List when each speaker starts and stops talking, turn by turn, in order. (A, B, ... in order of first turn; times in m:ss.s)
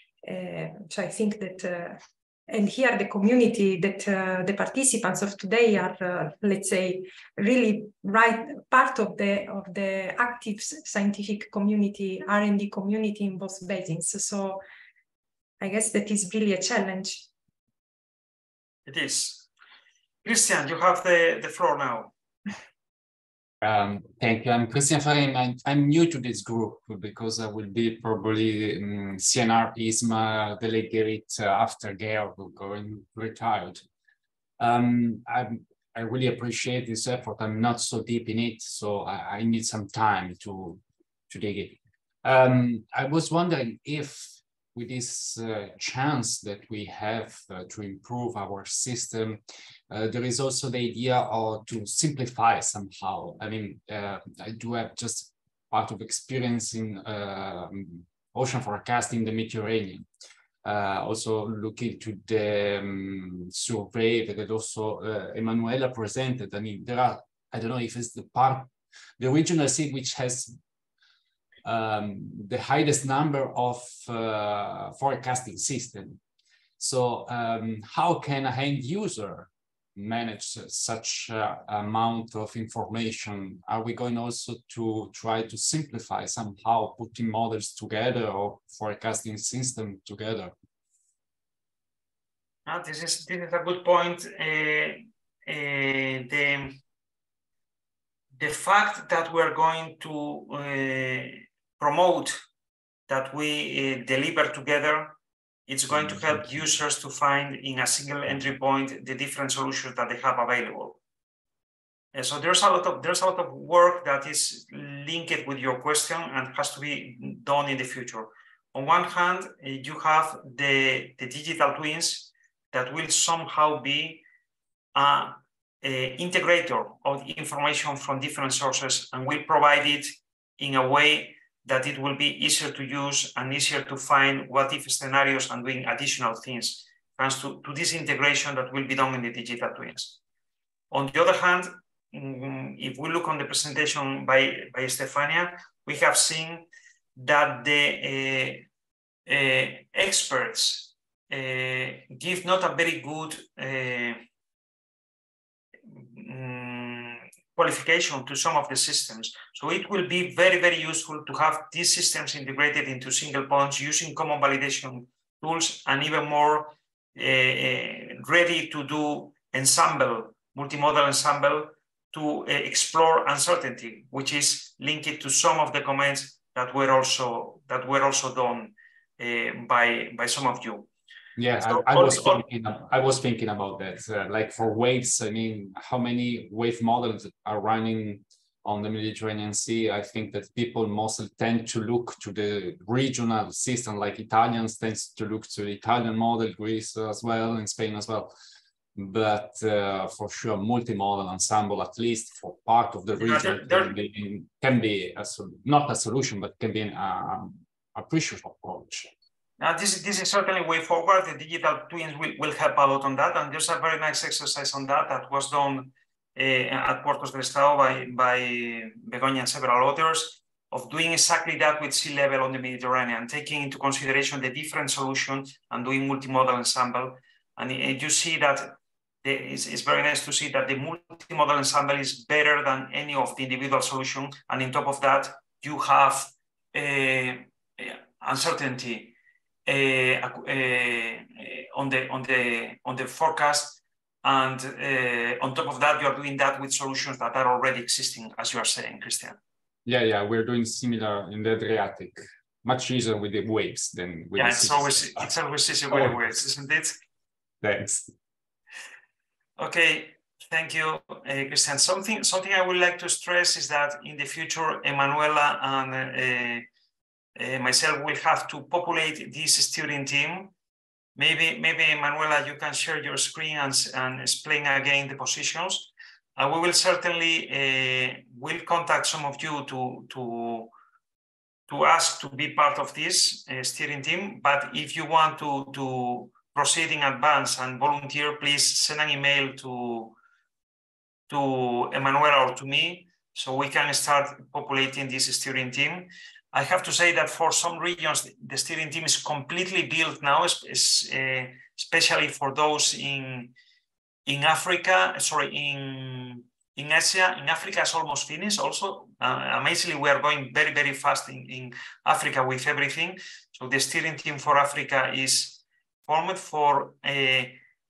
0:00.2-0:14.6 A
0:15.6-0:17.2 A
0:18.9-0:19.5 B
0:20.2-0:22.1 B
0:23.6-0:33.8 C
0:34.6-1:00.1 C
1:00.6-1:10.6 C
1:11.6-1:16.2 C
1:16.8-1:30.5 C
1:32.6-1:36.8 B
1:38.4-1:42.4 B
1:43.1-1:45.2 B
1:45.7-1:51.0 B
1:45.9-1:46.7 C
1:52.1-2:04.2 B
2:04.9-2:20.2 B
2:20.9-2:28.7 B
2:29.2-2:34.2 B
2:35.9-3:00.9 B
3:01.4-3:18.3 C
3:01.6-3:02.4 B
3:19.0-3:29.1 C
3:23.2-3:23.9 B
3:29.6-3:59.1 B
3:59.6-4:09.4 B
4:09.8-4:15.3 C
4:14.4-4:17.0 B
4:15.9-4:16.4 C
4:17.6-4:18.1 C
4:19.6-4:26.6 B
4:27.4-4:30.5 B
4:31.2-4:40.7 B
4:41.7-4:50.2 B
4:51.3-5:03.5 B
5:04.2-5:17.6 B